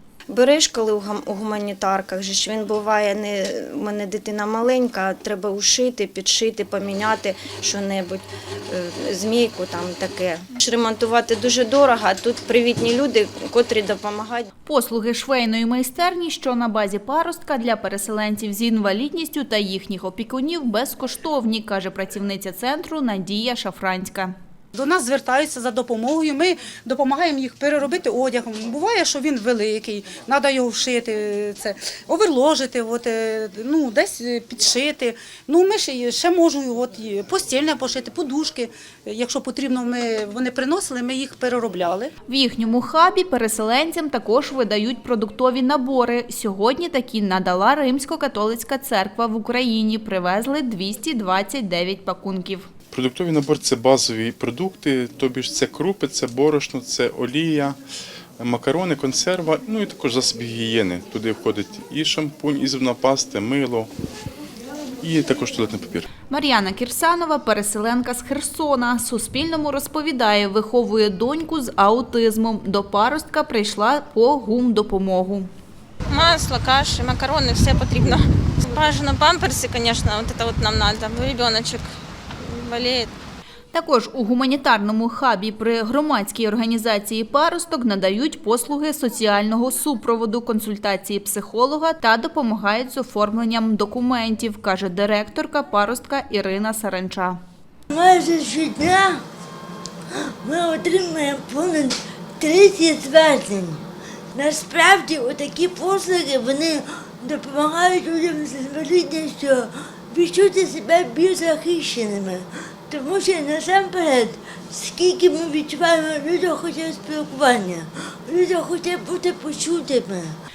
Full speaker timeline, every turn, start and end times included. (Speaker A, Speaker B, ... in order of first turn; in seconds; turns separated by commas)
Speaker A: 0.3-14.5, Speaker B: 14.7-24.3, Speaker C: 24.7-42.1, Speaker B: 42.3-52.7, Speaker D: 52.9-57.8, Speaker D: 58.4-63.9, Speaker D: 65.0-66.0, Speaker B: 66.3-75.5, Speaker E: 76.1-81.9, Speaker E: 82.4-83.1, Speaker B: 83.7-97.4, Speaker F: 97.9-99.2, Speaker F: 100.1-120.4